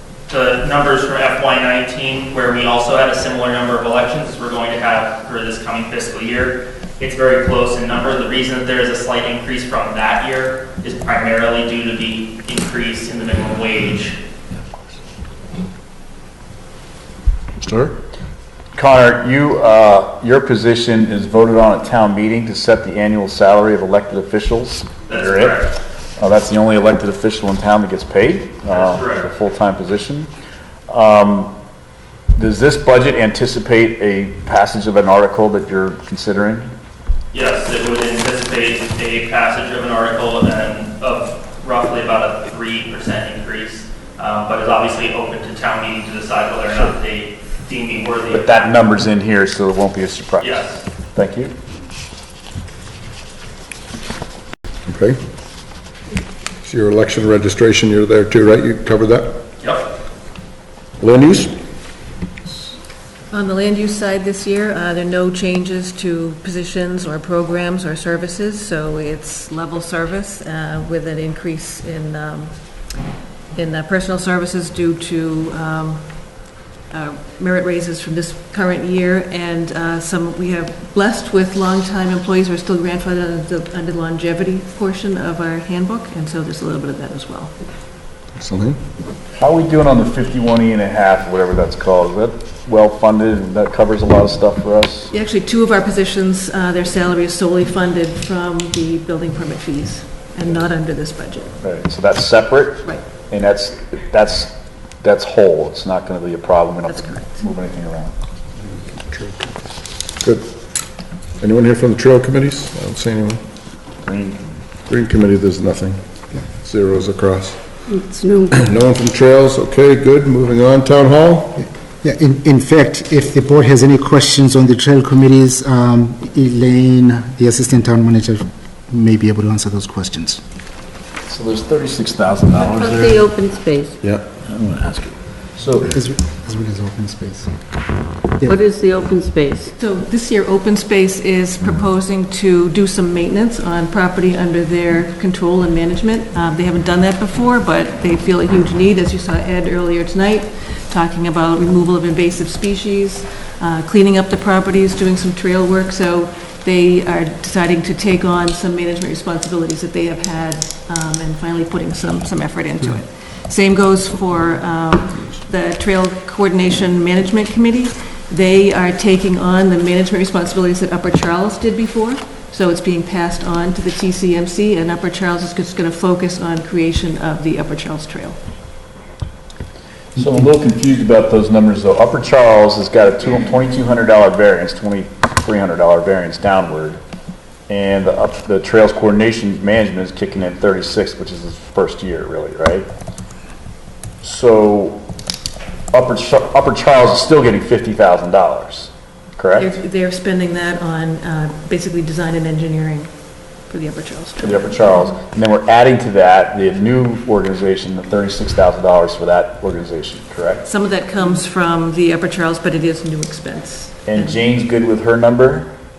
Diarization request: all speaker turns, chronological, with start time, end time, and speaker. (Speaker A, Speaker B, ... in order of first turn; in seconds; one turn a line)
Speaker A: 0.3-14.2
Speaker B: 17.6-17.9
Speaker C: 18.8-25.6
Speaker A: 25.1-25.7
Speaker C: 26.2-30.3
Speaker A: 28.7-29.3
Speaker C: 30.9-31.5
Speaker C: 32.4-36.7
Speaker A: 37.3-48.8
Speaker C: 48.3-50.6
Speaker A: 50.4-50.8
Speaker C: 51.1-51.5
Speaker B: 54.9-55.2
Speaker B: 56.6-59.3
Speaker A: 59.6-59.9
Speaker B: 61.0-61.5
Speaker D: 63.3-72.5
Speaker D: 73.5-76.1
Speaker D: 76.9-87.5
Speaker B: 88.4-88.8
Speaker C: 89.4-95.1
Speaker D: 95.1-101.5
Speaker C: 101.6-108.1
Speaker D: 106.9-107.4
Speaker B: 109.0-109.5
Speaker B: 111.4-113.4
Speaker C: 114.0-114.5
Speaker B: 114.9-117.6
Speaker B: 118.5-121.6
Speaker E: 122.0-130.4
Speaker C: 131.3-133.3
Speaker F: 132.6-134.0
Speaker C: 134.4-135.9
Speaker E: 135.8-137.6
Speaker F: 138.4-139.7
Speaker D: 139.8-178.3
Speaker C: 180.1-187.0
Speaker C: 187.7-192.9
Speaker C: 194.2-195.0
Speaker C: 195.9-199.7
Speaker D: 199.5-203.1
Speaker D: 203.7-204.8
Speaker C: 204.4-210.6
Speaker D: 210.6-214.4
Speaker C: 214.1-215.7